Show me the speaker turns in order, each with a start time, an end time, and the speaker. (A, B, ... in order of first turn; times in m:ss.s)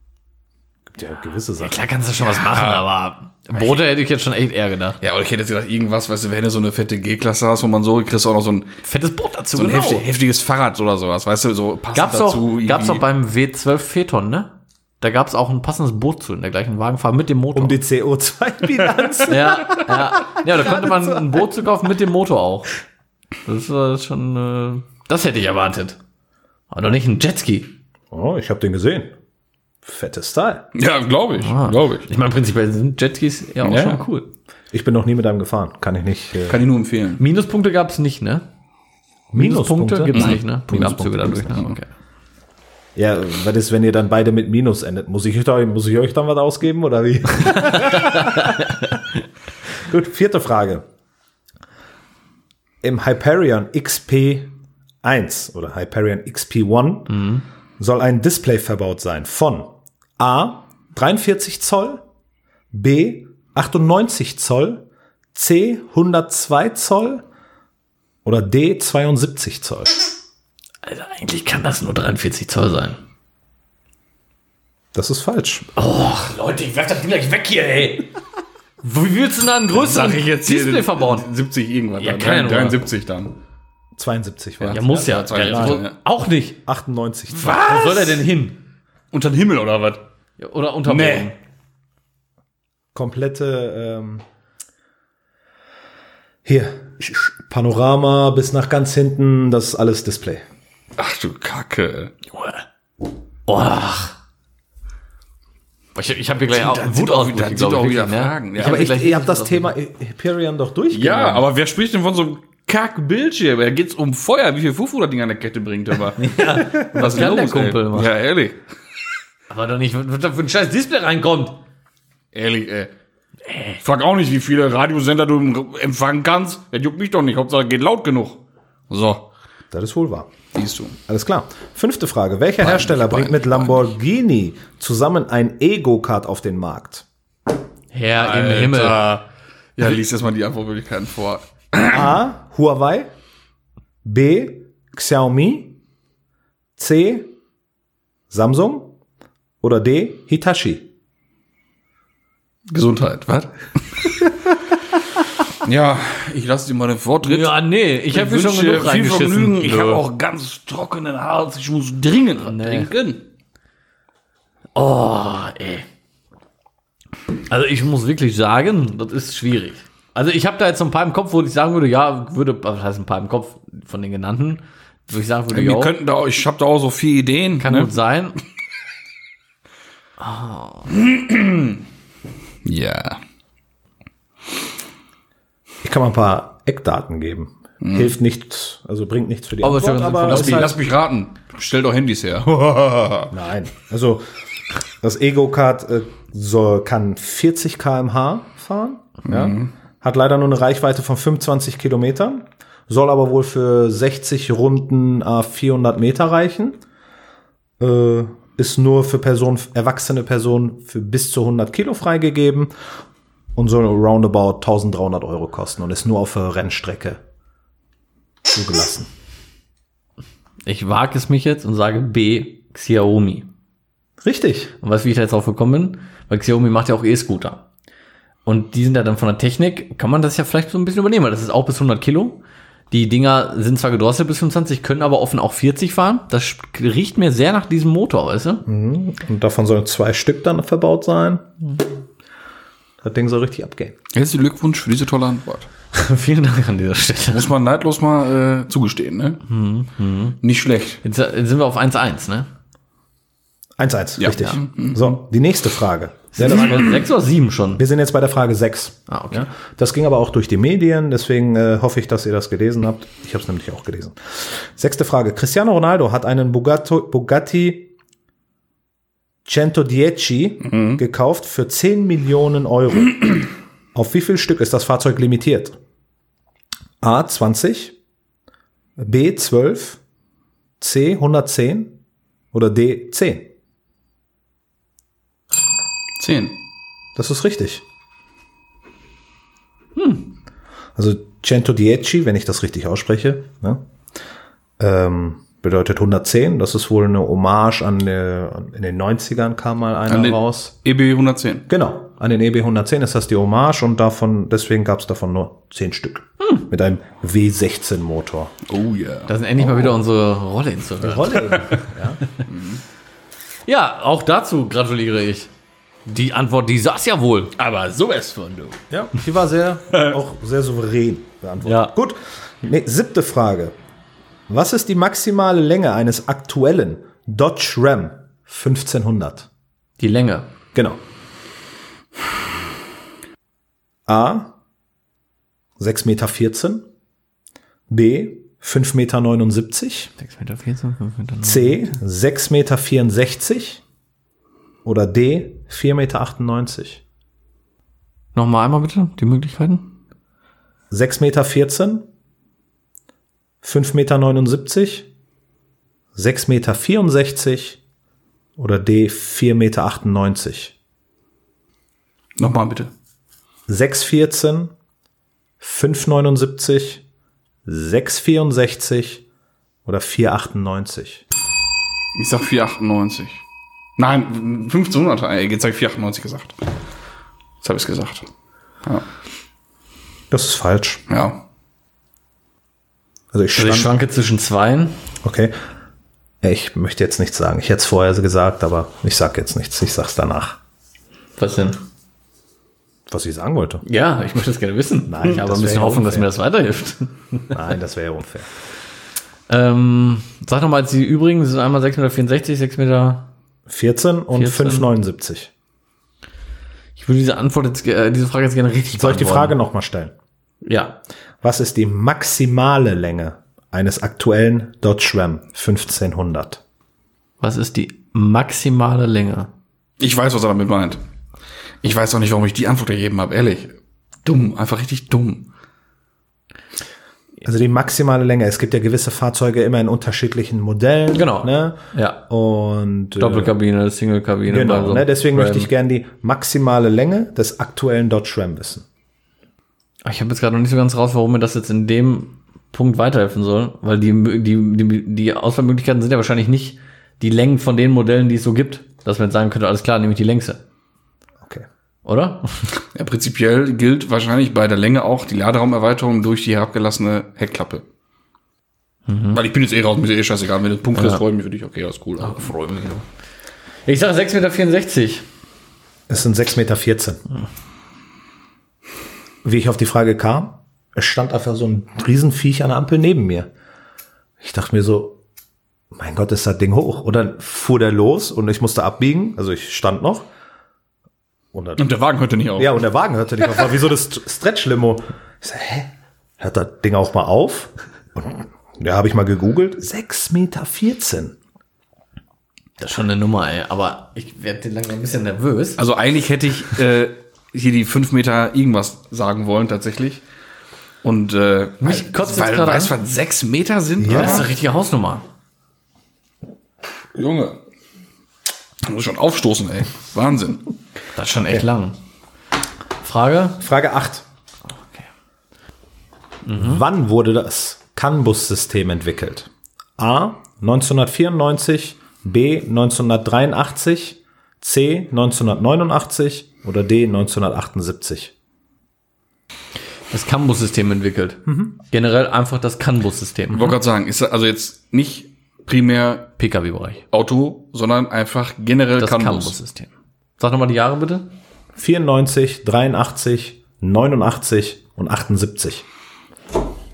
0:00.9-0:01.8 A
0:01.6-0:05.0 B
0:02.4-0:02.8 C
0:05.0-0:08.7 C
0:08.8-0:10.1 B
0:09.6-0:13.0 C
0:11.9-0:17.8 B
0:17.5-0:21.4 A
0:19.3-0:22.7 B
0:23.4-0:26.0 B
0:26.7-0:27.7 B
0:28.1-0:29.1 A
0:29.8-0:30.6 A
0:30.7-0:32.0 C
0:31.4-0:34.3 B
0:33.6-0:34.0 C
0:34.7-0:36.6 A
0:36.4-0:37.2 C
0:37.2-0:38.4 B
0:39.3-0:41.6 A
0:39.4-0:41.9 B
0:40.1-0:40.4 C
0:43.0-0:48.9 A
0:47.5-0:48.9 B
0:49.8-0:50.8 A
0:52.8-1:02.0 A
0:57.1-0:57.4 B
1:02.7-1:07.2 A
1:08.2-1:09.9 A
1:10.8-1:13.0 B
1:14.9-1:15.7 A
1:15.8-1:18.1 B
1:18.8-1:21.2 B
1:19.7-1:23.4 C
1:22.0-1:22.8 B
1:24.0-1:25.8 A
1:24.6-1:26.0 C
1:24.7-1:26.6 B
1:26.6-1:27.6 A
1:27.4-1:28.2 C
1:27.4-1:28.6 B
1:29.1-1:30.0 C
1:30.4-1:31.4 B
1:30.9-1:31.3 C
1:32.9-1:34.2 A
1:36.4-1:40.4 A
1:41.0-1:42.1 C
1:42.3-1:42.6 B
1:43.5-1:44.1 B
1:46.0-1:49.7 B
1:46.5-1:48.9 C
1:48.6-1:51.4 A
1:50.9-1:58.6 C
1:56.2-1:58.1 B
1:59.5-2:01.6 B
2:02.3-2:02.9 C
2:03.8-2:09.2 C
2:09.7-2:10.3 A
2:10.5-2:11.0 C
2:11.1-2:17.0 A
2:12.6-2:13.8 C
2:17.9-2:19.0 B
2:18.2-2:19.2 C
2:19.8-2:22.1 C
2:21.9-2:23.1 A
2:24.0-2:25.8 A
2:26.8-2:27.3 A
2:28.3-2:28.9 A
2:29.6-2:30.9 A
2:32.7-2:34.3 C
2:35.5-2:37.6 C
2:37.2-2:40.0 B
2:38.1-2:43.2 C
2:42.4-2:42.9 B
2:44.8-2:45.9 B
2:47.5-2:55.9 B
2:55.5-2:58.0 C
2:57.6-2:58.4 B
3:00.2-3:00.9 B
3:00.9-3:01.8 C
3:02.6-3:03.2 C
3:05.8-3:10.8 A
3:07.8-3:08.1 C
3:09.6-3:10.8 B
3:10.2-3:13.3 C
3:13.3-3:14.2 A
3:15.0-3:26.8 A
3:19.2-3:19.7 C
3:27.8-3:32.7 A
3:33.5-3:37.2 A
3:38.5-3:39.1 A
3:40.6-3:43.5 B
3:44.2-3:44.7 A
3:44.8-3:47.6 B
3:48.5-3:52.4 B
3:52.9-3:58.6 B
3:58.6-4:01.5 A
4:03.0-4:04.0 A
4:04.1-4:05.7 C
4:05.9-4:07.5 B
4:07.3-4:09.4 C
4:09.5-4:10.4 B
4:10.4-4:11.0 C
4:11.0-4:12.5 B
4:13.8-4:17.0 A
4:14.2-4:15.1 C
4:16.3-4:17.8 B
4:17.8-4:27.9 A
4:19.1-4:19.5 B
4:29.4-4:35.8 A
4:30.6-4:31.0 C
4:37.0-4:38.0 A
4:39.0-4:40.0 A
4:40.8-4:42.0 A
4:42.5-4:43.5 A
4:46.2-4:46.6 C
4:47.2-4:47.8 A
4:50.0-4:50.3 B
4:51.0-4:53.8 A
4:54.8-5:00.7 A
5:00.1-5:01.6 C
5:01.7-5:08.5 A
5:08.7-5:09.3 C
5:09.3-5:11.8 B
5:11.0-5:12.2 A
5:12.5-5:12.8 C
5:13.6-5:15.5 B
5:16.0-5:17.5 B
5:17.6-5:18.8 C
5:18.9-5:23.8 A
5:21.6-5:21.9 B
5:24.5-5:29.5 A
5:30.0-5:30.5 B
5:34.1-5:34.5 A
5:35.8-5:36.8 A
5:37.9-5:40.1 A
5:40.2-5:41.9 B
5:41.4-5:43.8 A
5:44.8-5:47.0 A
5:48.4-5:49.8 B
5:50.9-5:52.1 A
5:53.6-5:55.1 A
5:56.1-5:57.8 A
5:58.6-6:00.8 A
6:02.4-6:02.9 C
6:03.7-6:04.7 A
6:05.6-6:07.0 A
6:07.6-6:09.2 A
6:09.8-6:11.2 A
6:12.1-6:13.4 C
6:14.0-6:16.6 C
6:17.6-6:18.3 C
6:20.3-6:21.0 A
6:21.1-6:21.4 C
6:23.3-6:23.9 A
6:23.5-6:25.0 B
6:25.2-6:25.6 A
6:26.4-6:30.6 A
6:31.4-6:31.8 B
6:33.1-6:33.8 A
6:33.8-6:37.6 B
6:35.1-6:36.3 A
6:37.5-6:38.5 A
6:39.5-6:43.3 B
6:43.7-6:45.5 A
6:44.3-6:44.9 B
6:47.0-6:49.5 B
6:48.9-6:50.1 A
6:50.6-6:51.0 B
6:51.4-6:56.6 A
6:57.4-6:59.5 B
7:00.0-7:01.0 C
7:01.8-7:05.5 C
7:07.4-7:13.5 A
7:11.1-7:12.2 B
7:13.2-7:15.7 B
7:14.5-7:18.8 A
7:20.0-7:30.6 B
7:32.0-7:32.7 B
7:32.9-7:37.8 C
7:39.1-7:39.4 B
7:39.3-7:42.5 C
7:41.0-7:41.2 B
7:42.2-7:43.0 B
7:43.9-7:45.2 B
7:46.1-7:47.2 A
7:49.4-7:53.5 A
7:54.4-7:55.2 A
7:55.9-8:00.3 A
8:01.5-8:01.8 A
8:01.8-8:02.8 C
8:02.6-8:11.4 A
8:12.8-8:15.8 B
8:15.8-8:20.2 C
8:21.0-8:24.5 C
8:21.8-8:22.9 B
8:24.0-8:24.5 A
8:24.1-8:25.2 B
8:27.1-8:27.6 C
8:28.8-8:30.7 C
8:31.2-8:32.0 B
8:33.0-8:33.6 B
8:33.6-8:34.2 A
8:36.5-8:36.8 B
8:36.5-8:48.3 A
8:50.1-8:53.8 B
8:51.5-8:51.7 A
8:53.5-8:56.3 C
8:56.4-8:57.0 B
8:57.1-8:59.6 C
8:59.0-9:01.3 B
9:01.8-9:05.8 A